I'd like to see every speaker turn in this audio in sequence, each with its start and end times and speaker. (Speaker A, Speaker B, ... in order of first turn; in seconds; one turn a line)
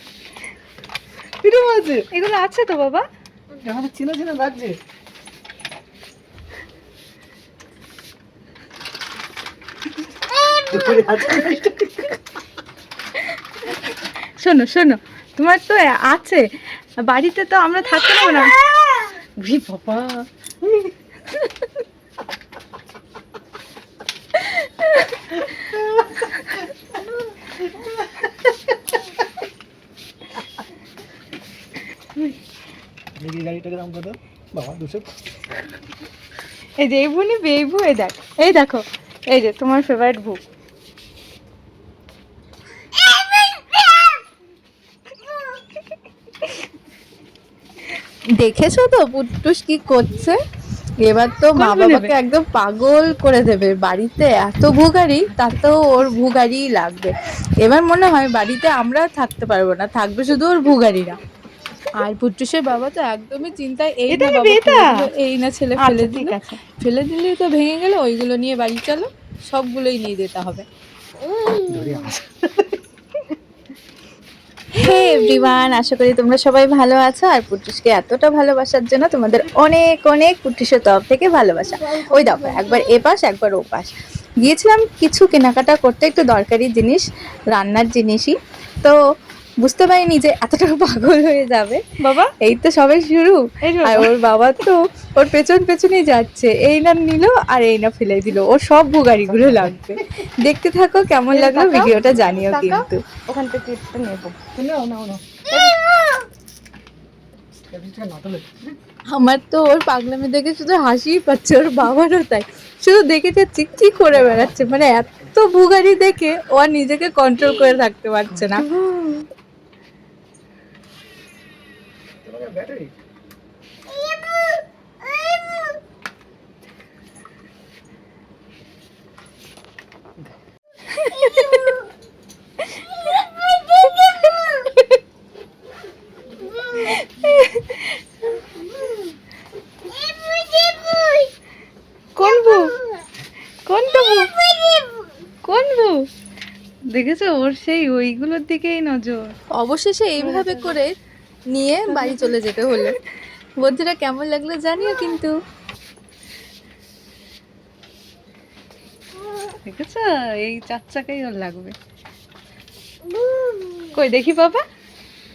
Speaker A: 1.4-2.1
Speaker B: 2.1-3.1
Speaker A: 3.6-4.8
Speaker A: 10.7-11.9
Speaker B: 14.4-20.3
Speaker A: 33.2-35.2
Speaker B: 36.8-40.4
Speaker C: 48.4-50.4
Speaker C: 51.0-61.2
Speaker B: 51.5-52.1
Speaker C: 62.0-70.7
Speaker B: 64.1-65.1
Speaker B: 65.8-66.6
Speaker A: 71.6-72.7
Speaker C: 74.8-89.0
Speaker B: 74.9-75.5
Speaker C: 89.6-91.8
Speaker B: 92.0-92.3
Speaker C: 92.4-103.0
Speaker B: 93.6-94.1
Speaker A: 99.3-99.8
Speaker B: 101.3-104.4
Speaker A: 104.5-105.4
Speaker B: 105.5-105.8
Speaker A: 107.7-108.7
Speaker C: 109.1-118.7
Speaker B: 118.7-119.2
Speaker A: 122.2-122.9
Speaker B: 131.0-131.3
Speaker B: 137.2-137.6
Speaker B: 142.2-142.8
Speaker B: 143.7-144.3
Speaker B: 145.4-146.0
Speaker B: 146.9-149.3
Speaker C: 149.6-150.9
Speaker B: 150.2-150.8
Speaker C: 151.5-153.0
Speaker B: 151.9-152.3
Speaker C: 153.6-155.3
Speaker B: 159.6-161.8
Speaker B: 163.9-164.6